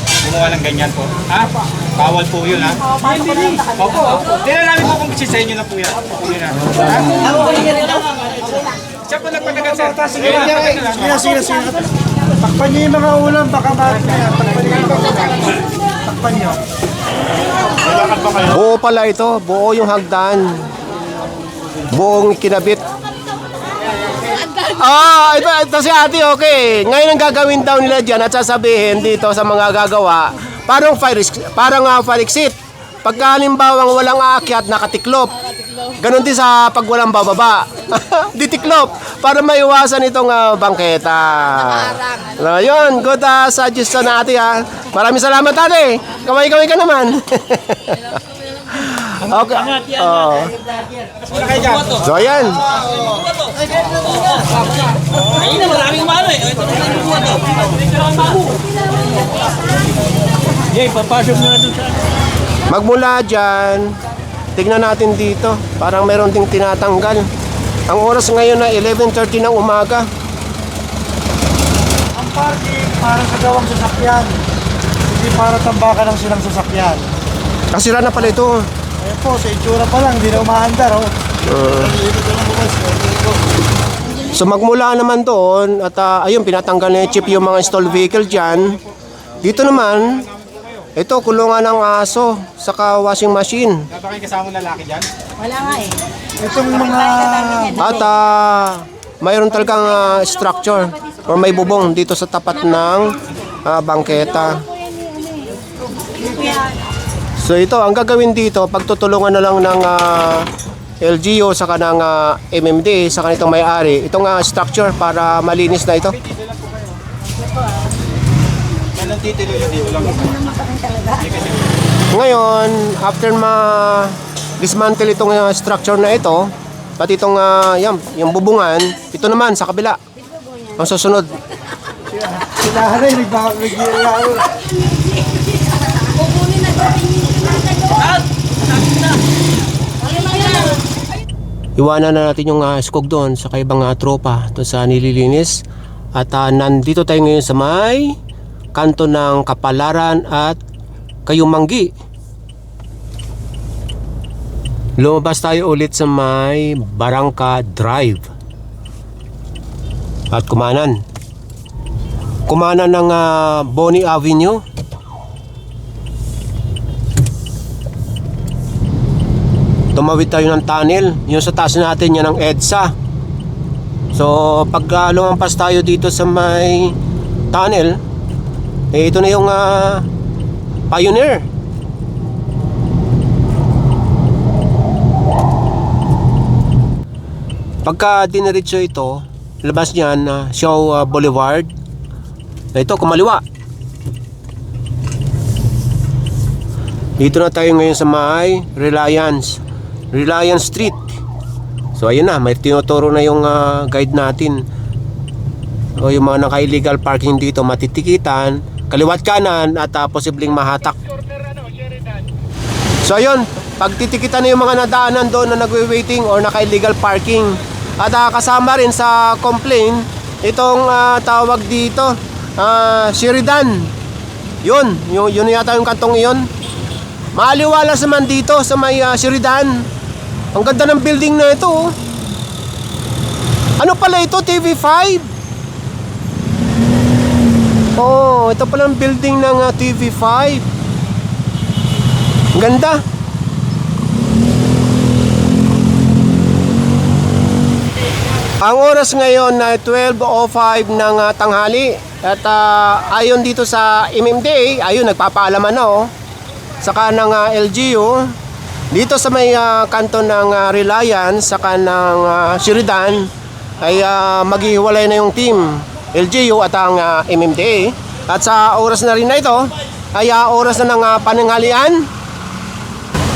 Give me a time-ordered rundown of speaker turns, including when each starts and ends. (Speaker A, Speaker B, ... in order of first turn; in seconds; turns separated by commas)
Speaker A: 0.2-7.7, Speaker A: 9.1-11.2, Speaker B: 9.7-16.6, Speaker A: 17.9-18.4, Speaker C: 18.4-20.6, Speaker C: 21.9-22.8, Speaker C: 24.6-35.4, Speaker C: 35.9-48.1, Speaker C: 48.7-50.5, Speaker A: 51.2-52.0, Speaker C: 52.0-52.6, Speaker A: 56.1-56.6, Speaker A: 60.9-61.8, Speaker C: 62.7-64.0, Speaker C: 64.6-67.3, Speaker C: 67.9-70.1, Speaker B: 72.2-74.4, Speaker B: 75.1-77.1, Speaker C: 77.7-78.7, Speaker B: 79.0-81.1, Speaker C: 81.5-82.0, Speaker B: 81.7-83.0, Speaker C: 84.3-88.8, Speaker C: 89.4-90.2, Speaker C: 91.0-93.8, Speaker A: 93.9-95.1, Speaker D: 95.4-96.0, Speaker B: 96.4-97.9, Speaker C: 97.8-104.6, Speaker D: 105.0-105.6, Speaker D: 106.1-106.7, Speaker C: 107.4-110.5, Speaker C: 111.0-116.2, Speaker A: 116.2-117.0, Speaker A: 119.0-120.3, Speaker D: 120.4-121.2, Speaker A: 121.2-121.6, Speaker C: 122.1-130.0, Speaker C: 130.8-131.3, Speaker B: 132.1-134.5, Speaker D: 134.9-138.2, Speaker D: 140.0-140.8, Speaker C: 141.8-145.6, Speaker C: 146.2-148.2, Speaker C: 148.8-150.6, Speaker C: 151.3-151.9, Speaker C: 155.0-158.3, Speaker C: 160.3-161.0, Speaker C: 162.5-164.6, Speaker C: 169.9-172.9, Speaker C: 174.1-177.0, Speaker C: 177.5-178.0, Speaker C: 178.9-180.1, Speaker C: 180.9-181.5, Speaker C: 187.8-191.7, Speaker C: 192.8-193.4, Speaker C: 197.2-199.6, Speaker C: 200.1-201.2, Speaker C: 202.0-204.6, Speaker C: 206.0-211.0, Speaker C: 213.0-223.9, Speaker C: 224.7-226.5, Speaker C: 227.4-229.8, Speaker C: 230.6-231.9, Speaker C: 233.8-235.3, Speaker C: 238.0-240.7, Speaker C: 242.6-243.0, Speaker C: 248.6-256.1, Speaker C: 256.8-258.3, Speaker C: 258.9-263.3, Speaker C: 263.8-272.1